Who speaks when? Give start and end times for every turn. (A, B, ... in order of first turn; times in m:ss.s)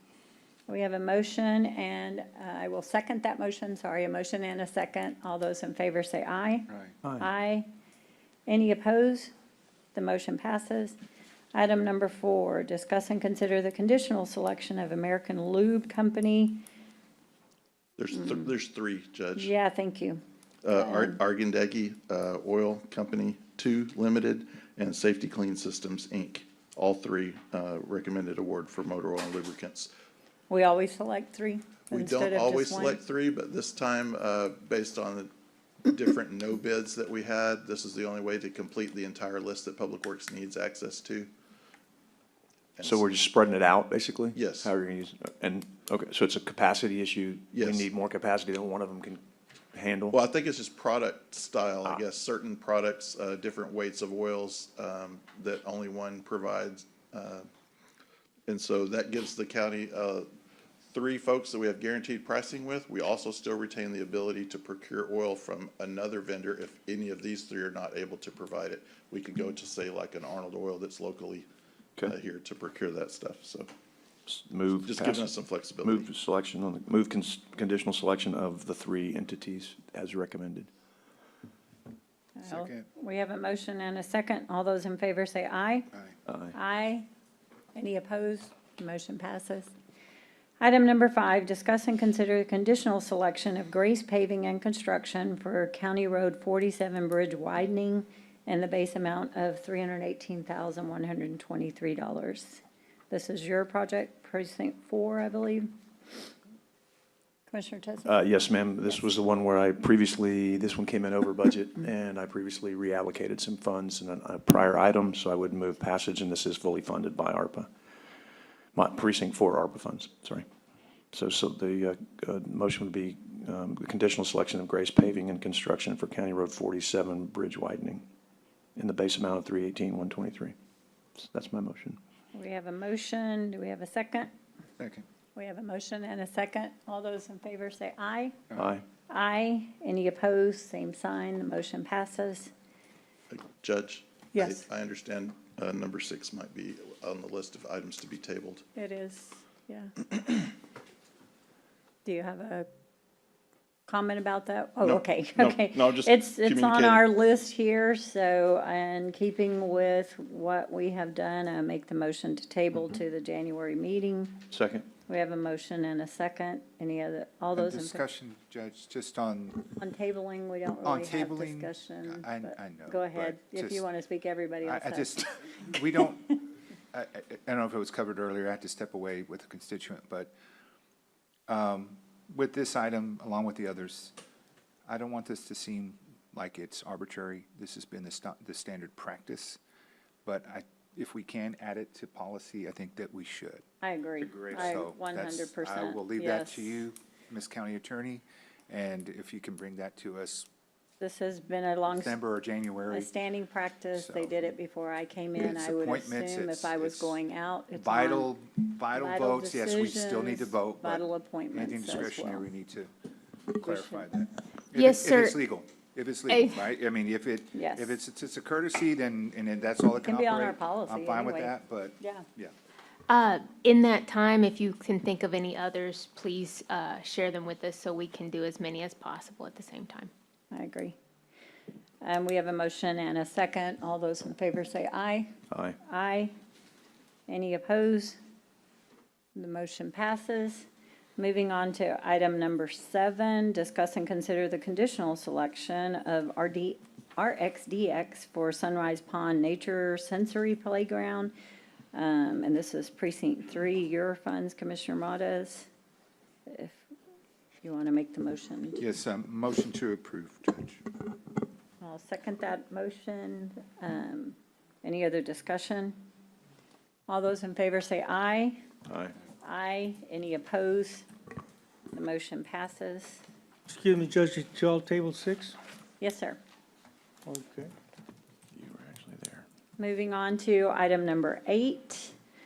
0:00.7-0:07.7 A
0:07.0-0:07.3 B
0:08.5-0:09.3 A
0:09.9-0:11.0 A
0:11.5-0:16.6 A
0:18.0-0:19.5 C
0:19.4-0:20.2 A
0:20.6-0:29.9 C
0:20.7-0:21.2 A
0:30.5-0:33.0 A
0:31.9-0:35.3 C
0:35.8-0:41.3 C
0:42.8-0:43.0 C
0:42.8-0:49.2 B
0:44.3-0:44.7 C
0:47.5-0:47.9 C
0:49.7-0:50.2 B
0:50.1-0:57.5 C
0:58.5-1:00.3 C
1:00.9-1:11.5 C
1:12.0-1:13.7 C
1:14.3-1:20.7 B
1:14.8-1:16.1 C
1:22.4-1:25.9 A
1:22.4-1:22.9 D
1:26.3-1:26.6 B
1:26.5-1:27.0 A
1:27.7-1:29.7 A
1:30.6-1:45.7 A
1:47.5-1:48.2 A
1:48.0-1:57.7 B
1:58.7-2:00.4 B
2:01.1-2:08.0 B
2:08.8-2:10.5 B
2:11.2-2:12.0 B
2:12.3-2:14.3 A
2:14.8-2:15.0 D
2:15.3-2:18.4 A
2:18.5-2:18.8 B
2:19.1-2:22.5 A
2:23.3-2:28.6 C
2:24.3-2:24.6 A
2:28.8-2:29.9 A
2:32.0-2:32.7 A
2:33.9-2:44.4 A
2:34.8-2:37.0 C
2:44.5-2:44.9 B
2:45.1-2:48.0 A
2:47.5-2:49.7 D
2:49.8-2:55.6 A
2:50.8-2:53.8 D
2:54.6-3:00.3 D
3:01.5-3:04.1 D
3:04.9-3:09.6 D
3:10.2-3:13.6 D
3:13.8-3:16.8 A
3:14.2-3:20.5 D
3:21.0-3:22.2 A
3:21.9-3:23.1 D
3:22.9-3:28.3 A
3:23.9-3:24.4 D
3:25.3-3:27.2 D
3:27.7-3:32.9 D
3:28.9-3:32.4 A
3:33.5-3:42.5 D
3:33.6-3:34.0 A
3:34.8-3:35.4 E
3:36.3-3:36.7 E
3:37.5-3:38.0 A
3:40.0-3:42.2 A
3:43.1-3:50.1 E
3:50.5-3:51.0 A
3:52.0-3:55.3 A
3:55.5-3:55.8 B
3:55.8-3:56.3 A
3:57.3-3:58.2 A
3:59.4-4:11.3 A
4:11.9-4:15.7 A
4:16.5-4:16.8 A
4:17.6-4:18.8 A
4:18.8-4:20.8 D
4:21.8-4:26.0 A
4:27.1-4:28.6 A
4:28.9-4:29.1 B
4:29.4-4:31.1 A
4:31.9-4:33.2 A
4:33.7-4:35.6 F
4:36.0-4:36.4 A
4:37.2-4:37.7 F
4:38.5-4:39.4 B
4:39.8-4:42.1 A